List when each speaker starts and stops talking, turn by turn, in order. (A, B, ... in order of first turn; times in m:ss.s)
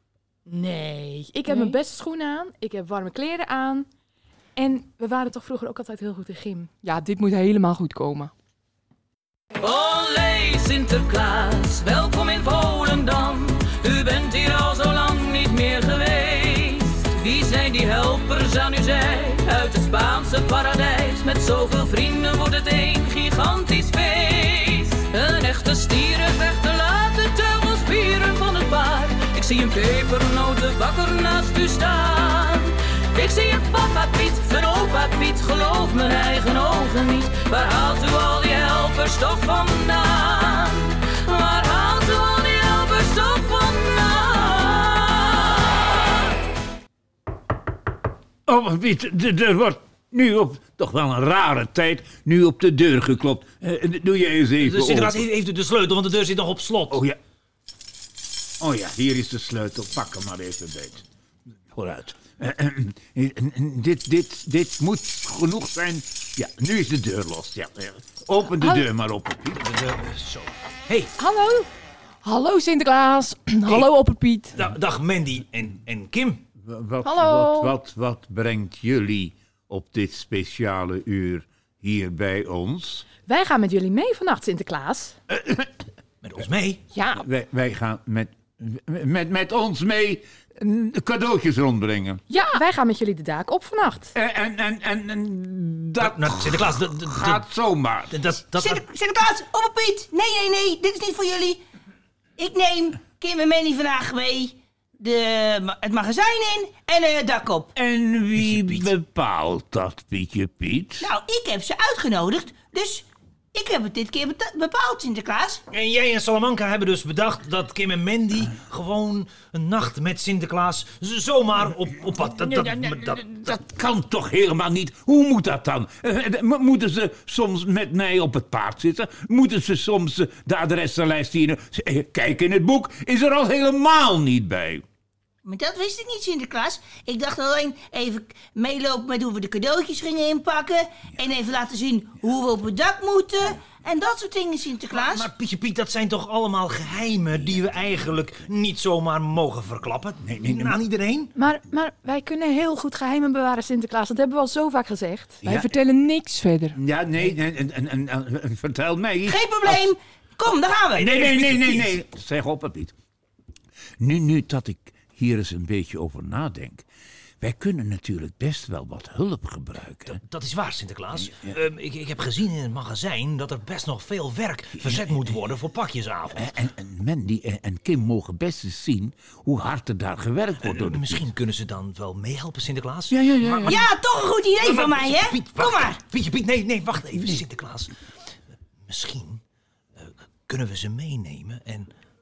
0:00.5-0:03.9 A
0:01.5-0:01.8 B
0:04.6-0:06.7 A
0:06.8-0:08.3 B
0:09.6-0:46.2 C
0:48.4-0:55.3 D
0:54.6-0:57.0 E
0:56.9-0:57.2 D
0:58.6-1:01.1 D
1:01.7-1:09.7 D
1:09.5-1:11.1 E
1:11.2-1:11.7 A
1:12.2-1:14.6 B
1:14.5-1:16.4 E
1:16.6-1:23.0 D
1:17.0-1:17.7 B
1:23.2-1:25.2 A
1:25.3-1:25.7 D
1:26.2-1:26.8 E
1:26.9-1:27.2 B
1:27.1-1:32.2 D
1:32.3-1:34.1 A
1:34.1-1:38.2 D
1:36.0-1:37.4 E
1:38.1-1:38.8 E
1:38.6-1:41.6 F
1:42.4-1:47.7 F
1:47.8-1:51.1 D
1:48.4-1:48.9 E
1:51.0-1:55.6 F
1:55.7-2:03.6 E
2:02.4-2:14.8 D
2:15.4-2:25.3 F
2:24.9-2:31.3 E
2:30.2-2:30.8 D
2:31.4-2:35.4 A
2:35.4-2:36.8 B
2:35.4-2:35.7 D
2:36.7-2:39.9 D
2:39.2-2:41.4 F
2:40.9-2:42.9 D
2:41.0-2:42.0 E
2:44.0-2:46.8 D
2:47.4-2:50.2 D
2:50.0-2:56.6 E
2:51.2-2:51.6 D
2:54.8-2:55.0 D
2:56.3-3:01.3 D
3:00.6-3:03.9 E
3:03.1-3:03.8 D
3:03.6-3:06.0 F
3:04.6-3:07.9 E
3:08.8-3:09.4 E
3:10.0-3:11.9 E